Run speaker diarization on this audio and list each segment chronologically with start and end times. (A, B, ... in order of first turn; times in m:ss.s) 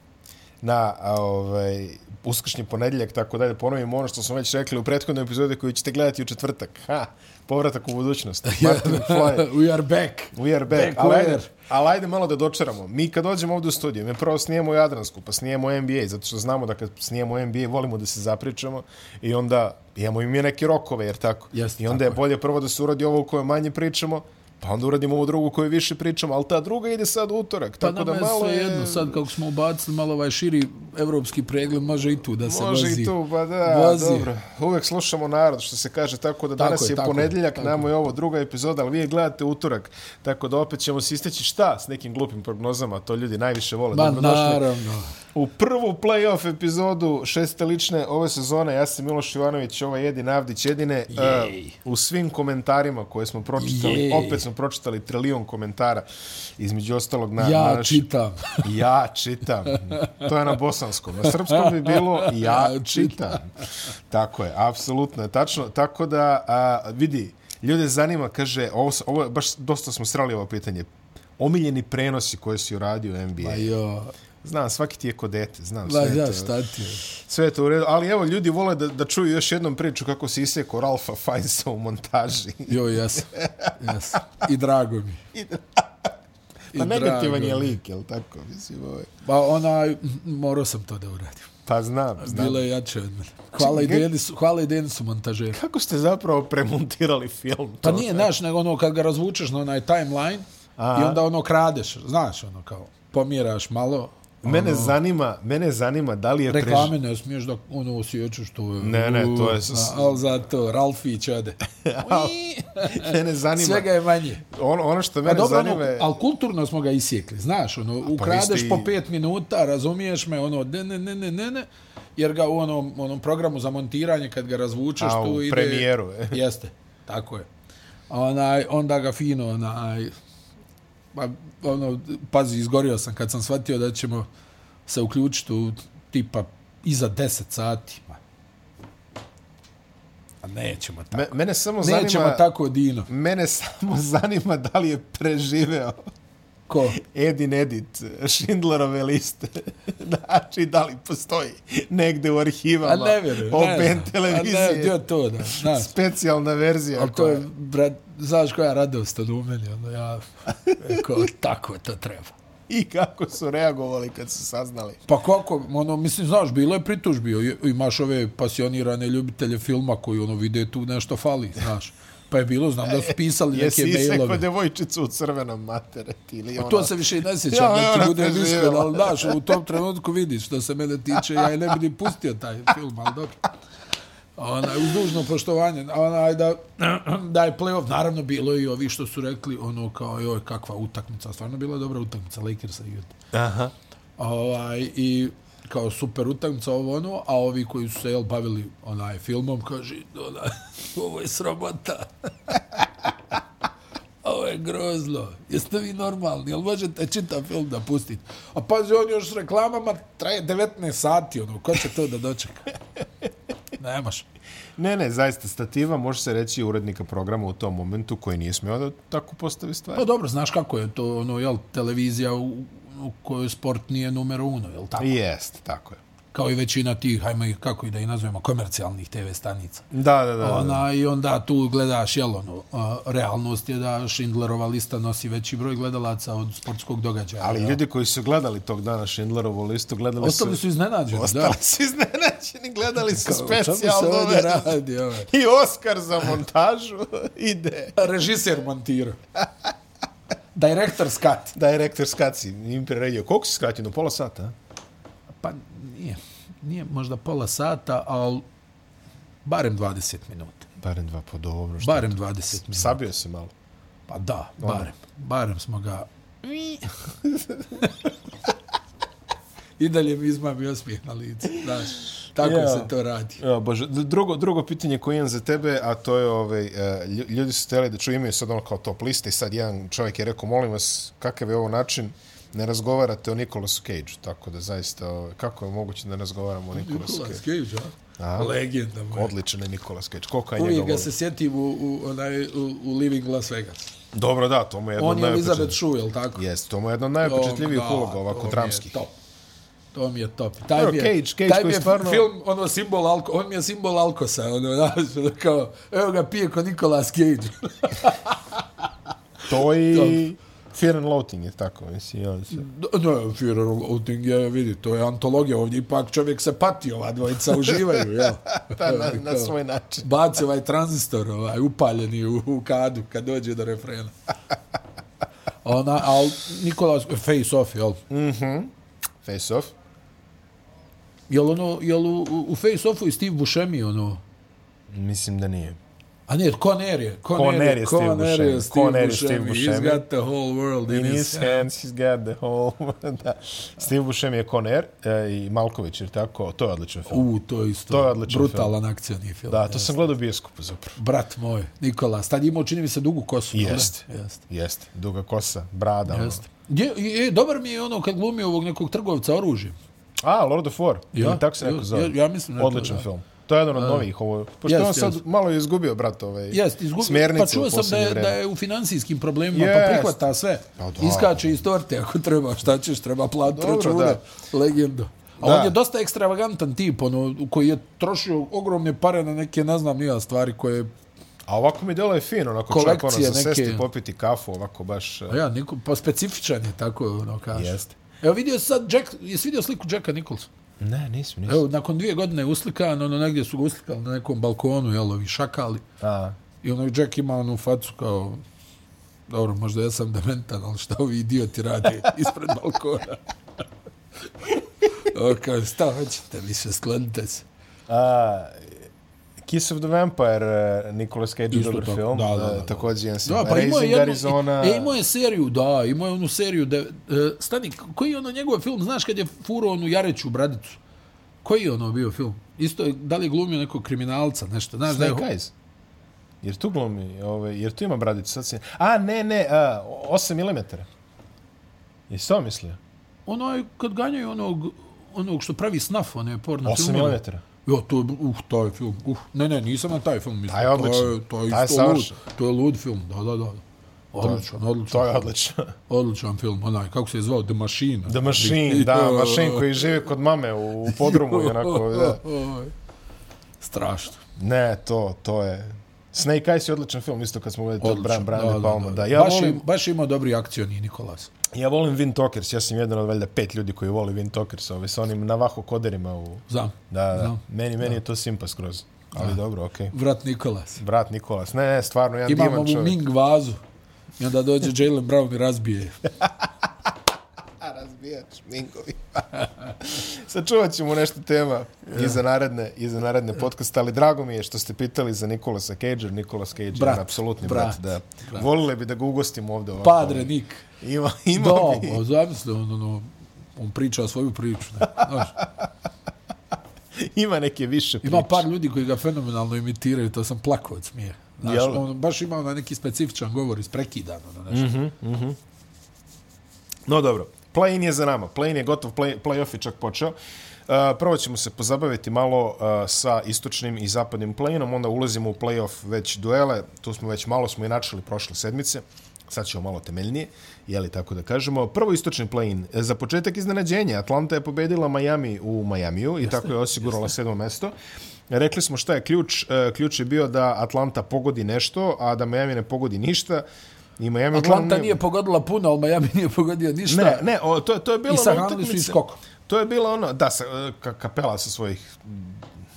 0:00.6-0:09.5 A
0:08.4-0:11.5 B
0:10.3-0:29.2 A
0:21.5-0:22.2 B
0:27.8-0:34.3 B
0:32.4-0:44.6 A
0:36.6-0:37.9 B
0:43.9-0:45.1 B
0:45.3-0:56.1 A
0:51.1-0:51.7 B
0:53.6-0:54.4 B
0:56.6-0:58.0 A
0:57.4-0:58.7 B
0:58.6-1:13.7 A
0:59.7-1:00.3 B
1:01.2-1:03.4 B
1:13.4-1:14.1 B
1:14.4-1:16.5 A
1:15.8-1:17.0 B
1:17.0-1:24.0 A
1:22.7-1:25.2 B
1:25.3-1:26.1 A
1:26.7-1:27.7 B
1:26.7-1:29.1 A
1:29.2-1:31.5 B
1:31.6-1:32.6 A
1:32.2-1:35.6 B
1:33.6-1:34.1 A
1:35.5-1:38.3 A
1:37.8-1:45.0 B
1:40.8-1:41.2 A
1:44.4-1:46.9 A
1:46.5-1:54.4 B
1:48.8-1:50.1 A
1:51.8-1:53.9 A
1:54.4-1:56.1 A
1:55.2-2:07.5 B
1:58.0-1:58.9 A
2:05.0-2:06.4 A
2:08.1-2:10.1 B
2:11.1-2:14.3 B
2:14.9-2:18.2 B
2:20.4-2:23.1 B
2:21.1-2:22.5 A
2:23.1-2:26.0 A
2:26.7-2:27.0 B
2:27.0-2:37.4 A
2:32.8-2:35.9 B
2:36.9-2:42.3 B
2:40.7-2:41.0 A
2:42.7-2:45.0 A
2:45.1-2:54.4 B
2:52.9-2:57.0 A
2:56.6-3:03.5 B
2:57.5-2:59.6 A
3:04.4-3:13.1 B
3:13.3-3:13.7 A
3:14.2-3:22.1 B
3:24.2-3:32.7 B
3:33.8-3:34.2 B
3:34.8-3:40.0 A
3:39.9-3:45.1 B
3:45.0-3:46.0 A
3:46.3-3:49.9 B
3:49.9-3:50.8 A
3:50.4-3:57.8 B
3:57.4-4:04.7 A
4:00.2-4:01.6 B
4:03.0-4:05.3 B
4:05.3-4:08.1 A
4:07.9-4:09.2 B
4:10.5-4:11.5 B
4:11.5-4:14.5 A
4:15.4-4:18.4 B
4:19.4-4:20.7 B
4:20.8-4:22.1 A
4:21.8-4:23.0 B
4:22.7-4:23.5 A
4:24.1-4:27.0 B
4:24.6-4:24.9 A
4:29.8-4:33.4 B
4:32.4-4:47.4 A
4:46.7-4:49.3 B
4:48.2-4:48.5 A
4:49.1-4:51.1 A
4:50.6-4:53.9 B
4:54.1-4:55.8 A
4:55.0-4:56.4 B
4:56.3-4:59.0 A
4:57.2-4:59.1 B
4:59.9-5:08.6 B
5:00.7-5:02.3 A
5:09.5-5:12.6 A
5:09.9-5:10.2 B
5:12.5-5:24.1 B
5:17.6-5:20.1 A
5:25.6-5:28.0 B
5:28.1-5:28.7 A
5:29.2-5:29.7 A
5:31.3-5:34.2 B
5:34.9-5:35.8 A
5:36.3-5:41.6 B
5:37.3-5:40.0 A
5:40.9-5:47.2 A
5:47.1-5:50.1 B
5:47.9-5:48.7 A
5:49.5-5:51.0 A
5:51.0-5:54.4 B
5:53.5-5:56.4 A
5:56.1-5:59.8 B
6:00.2-6:08.4 A
6:01.1-6:03.1 B
6:03.7-6:04.0 B
6:04.6-6:05.2 B
6:06.5-6:20.9 B
6:09.5-6:10.2 A
6:10.8-6:11.5 A
6:13.4-6:14.2 A
6:15.4-6:15.8 A
6:21.5-6:25.4 A
6:22.7-6:23.8 B
6:25.3-6:30.5 B
6:27.5-6:27.8 A
6:30.8-6:31.6 A
6:31.4-6:35.8 B
6:36.0-6:36.4 A
6:36.6-6:38.4 B
6:39.3-6:43.2 B
6:44.4-6:47.4 B
6:47.9-6:48.8 A
6:49.4-6:55.0 A
6:51.5-7:00.8 B
7:01.4-7:05.3 B
7:04.9-7:05.5 A
7:06.4-7:10.9 A
7:12.1-7:12.8 A
7:13.3-7:25.2 B
7:16.6-7:17.4 A
7:20.5-7:22.1 A
7:24.2-7:25.7 A
7:25.9-7:29.9 B
7:28.0-7:32.2 A
7:30.9-7:32.7 B
7:33.6-7:34.2 B
7:34.4-7:39.6 A
7:37.8-7:41.3 B
7:41.5-7:49.9 A
7:46.5-7:47.9 B
7:49.1-7:49.4 B
7:49.9-7:50.8 B
7:50.8-7:53.0 A
7:52.3-7:53.6 B
7:54.2-7:56.0 B
7:57.6-8:12.0 A
8:01.9-8:02.2 B
8:06.7-8:08.4 B
8:09.8-8:10.6 B
8:11.3-8:15.4 B
8:14.9-8:15.6 A
8:17.0-8:18.5 A
8:18.0-8:24.7 B
8:21.4-8:21.8 A
8:24.5-8:25.4 A
8:26.9-8:30.1 A
8:30.7-8:47.7 A
8:48.3-8:53.4 A
8:54.0-8:55.0 A
8:54.3-8:57.3 B
8:56.9-9:02.5 A
8:58.1-8:59.2 B